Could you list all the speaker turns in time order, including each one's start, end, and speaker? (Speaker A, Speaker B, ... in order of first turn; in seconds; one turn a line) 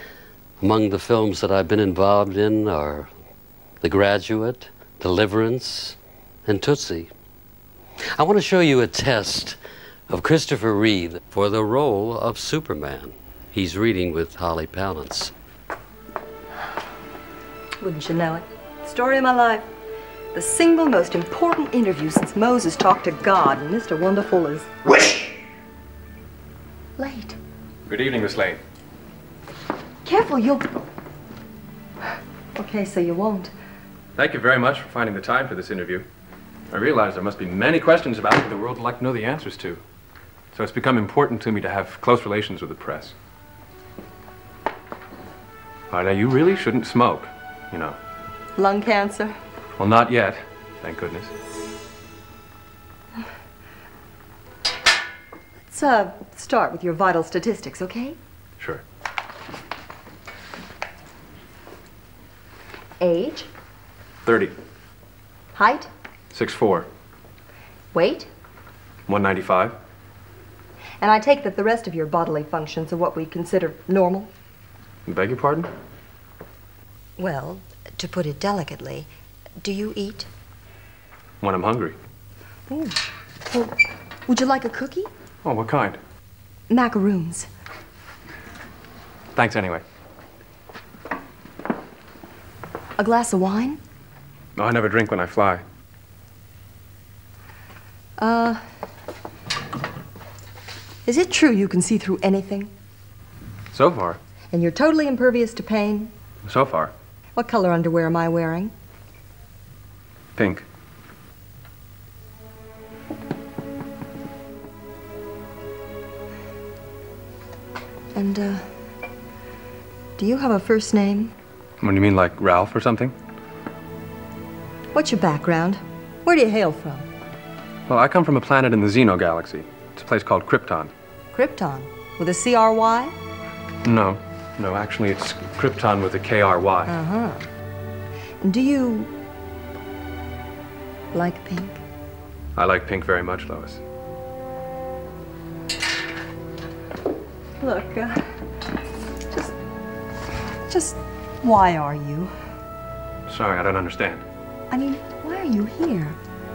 Speaker A: 0.6-3.1
Speaker A: 3.8-7.1
Speaker A: 8.2-9.6
Speaker A: 10.1-15.3
Speaker B: 17.8-19.7
Speaker B: 20.3-24.7
Speaker B: 27.0-27.4
Speaker C: 27.9-28.6
Speaker B: 30.1-30.9
Speaker B: 32.6-33.5
Speaker C: 34.2-36.1
Speaker C: 36.7-39.8
Speaker C: 40.5-43.2
Speaker C: 45.9-48.0
Speaker B: 48.6-49.4
Speaker C: 49.8-51.3
Speaker B: 55.7-58.2
Speaker B: 63.0-63.5
Speaker C: 64.2-64.5
Speaker B: 65.5-65.9
Speaker C: 66.3-66.9
Speaker B: 67.9-68.3
Speaker C: 69.1-69.8
Speaker B: 71.0-74.3
Speaker C: 75.1-75.7
Speaker B: 77.2-79.1
Speaker B: 79.6-80.3
Speaker C: 81.4-82.0
Speaker B: 82.7-83.0
Speaker B: 84.3-85.1
Speaker C: 85.4-86.0
Speaker B: 86.7-87.5
Speaker C: 89.3-89.8
Speaker B: 93.0-93.8
Speaker C: 94.6-95.6
Speaker B: 98.2-98.6
Speaker B: 101.1-102.7
Speaker C: 103.7-104.2
Speaker B: 104.5-106.1
Speaker C: 106.4-106.9
Speaker B: 107.4-108.7
Speaker C: 110.4-110.7
Speaker B: 118.1-118.7
Speaker B: 120.2-121.3
Speaker C: 121.8-123.2
Speaker B: 124.9-127.1
Speaker C: 127.9-130.9
Speaker B: 131.3-133.2
Speaker C: 133.8-136.9
Speaker B: 136.9-137.5
Speaker B: 138.4-139.1
Speaker B: 141.1-141.8
Speaker C: 142.6-143.8
Speaker B: 147.6-148.3
Speaker B: 150.7-152.3
Speaker C: 153.3-154.2
Speaker B: 154.7-156.2